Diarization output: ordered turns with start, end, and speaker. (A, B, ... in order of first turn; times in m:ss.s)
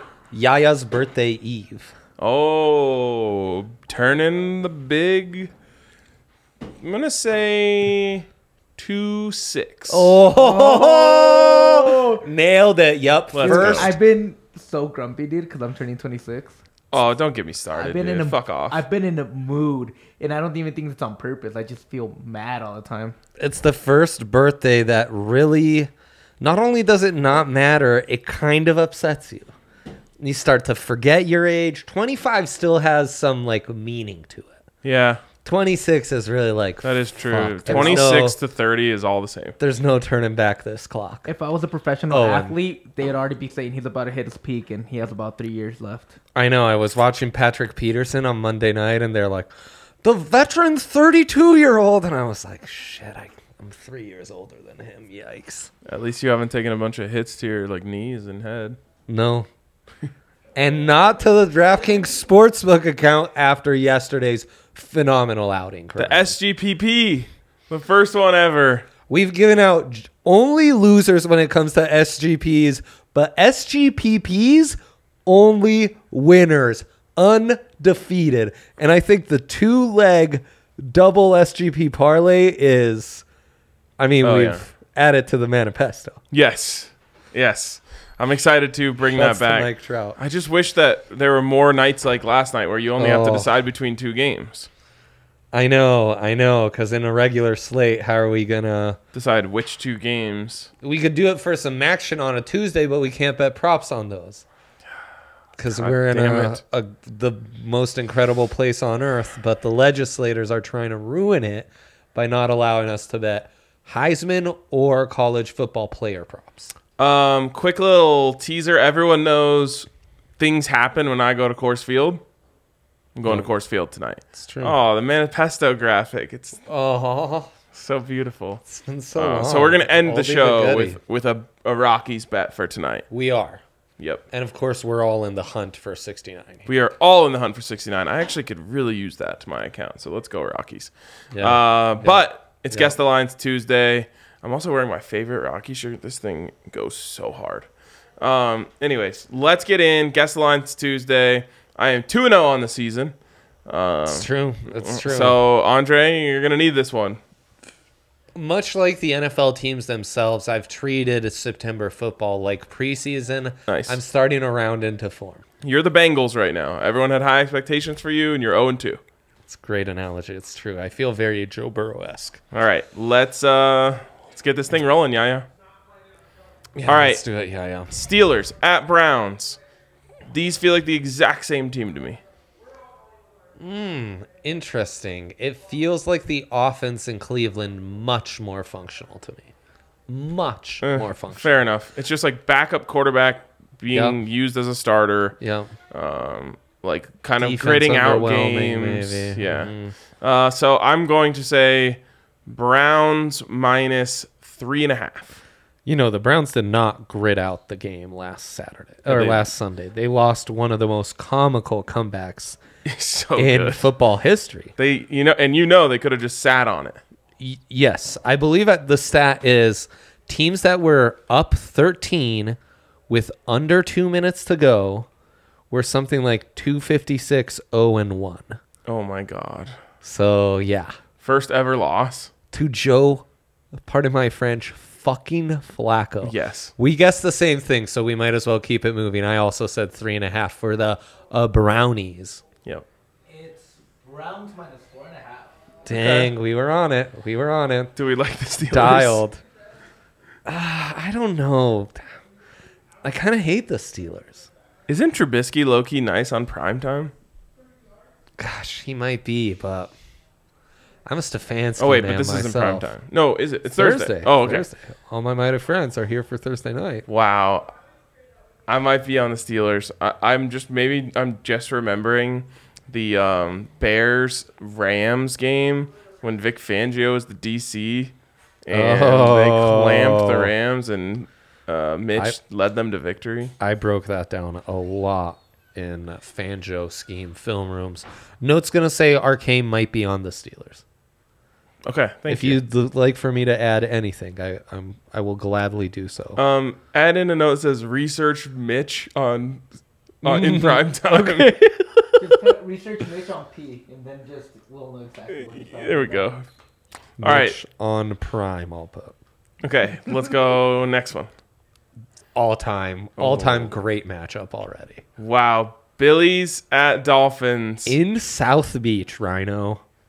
0:00.3-0:01.9 A
0:02.2-0:05.5 B
0:06.8-0:08.2 B
0:08.8-0:10.1 B
0:09.9-0:14.0 A
0:10.3-0:12.2 C
0:13.3-0:13.9 B
0:13.4-0:16.6 C
0:16.9-0:18.8 B
0:17.7-0:23.2 C
0:23.4-0:29.5 A
0:30.2-0:34.6 A
0:34.8-0:35.2 B
0:35.4-0:38.4 A
0:36.8-0:39.5 B
0:39.6-0:41.3 A
0:41.3-0:46.1 C
0:42.1-0:42.6 A
0:46.3-0:49.5 A
0:50.0-0:55.7 A
0:55.8-0:58.8 B
0:59.1-0:59.5 A
1:00.5-1:06.3 A
1:06.0-1:08.9 B
1:09.1-1:23.2 A
1:24.0-1:26.2 A
1:24.2-1:24.6 B
1:26.3-1:34.7 B
1:29.1-1:30.2 A
1:33.0-1:33.5 A
1:35.5-1:39.0 A
1:39.1-1:40.7 B
1:40.8-1:44.4 A
1:45.6-1:56.7 A
1:45.7-1:46.6 B
1:57.0-1:59.9 B
2:00.4-2:02.2 B
2:03.1-2:06.6 B
2:04.4-2:04.8 A
2:06.7-2:07.5 A
2:07.7-2:08.6 B
2:08.7-2:11.0 A
2:09.2-2:13.1 B
2:13.1-2:13.6 A
2:14.3-2:16.7 A
2:16.7-2:27.7 B
2:21.3-2:22.9 A
2:28.2-2:33.1 B
2:33.7-2:37.2 B
2:34.1-2:35.4 A
2:38.4-2:45.4 A
2:43.7-2:44.0 B
2:45.6-2:49.0 B
2:49.4-2:52.4 A
2:52.5-2:55.4 B
2:56.8-2:57.2 B
2:56.8-2:57.9 A
2:57.9-2:59.6 B
3:00.3-3:02.2 B
3:03.6-3:09.5 A
3:10.1-3:11.5 A
3:10.8-3:15.4 B
3:13.9-3:14.2 A
3:15.4-3:15.7 A
3:15.9-3:25.4 B
3:17.4-3:20.0 A
3:25.8-3:32.6 A
3:29.0-3:29.4 B
3:32.8-3:33.9 B
3:33.4-3:34.7 A
3:34.8-3:37.0 B
3:37.4-3:42.6 A
3:43.1-3:45.1 A
3:45.7-3:48.6 A
3:48.8-3:49.8 B
3:50.0-3:51.0 A
3:51.2-3:52.3 B
3:52.5-4:02.4 A
3:56.2-3:56.7 B
4:03.3-4:05.5 C
4:05.8-4:07.9 A
4:05.9-4:06.3 B
4:08.0-4:09.2 B
4:08.7-4:09.4 A
4:10.5-4:12.0 A
4:13.0-4:14.5 A
4:14.9-4:17.1 B
4:18.4-4:19.9 A
4:21.1-4:22.9 A
4:21.8-4:24.6 B
4:23.7-4:27.0 A
4:27.1-4:27.7 B
4:28.7-4:38.1 B
4:38.6-4:43.5 B
4:38.7-4:40.5 A
4:43.6-4:50.8 A
4:51.9-4:52.6 B
4:52.3-4:56.4 A
4:56.4-4:59.6 B
5:00.2-5:01.5 A
5:00.2-5:02.2 B
5:02.2-5:06.3 C
5:05.3-5:06.4 B
5:07.2-5:09.1 A
5:07.2-5:07.6 B
5:09.6-5:11.3 B
5:12.4-5:15.0 A
5:13.2-5:13.7 B
5:15.2-5:18.0 B
5:17.8-5:19.8 A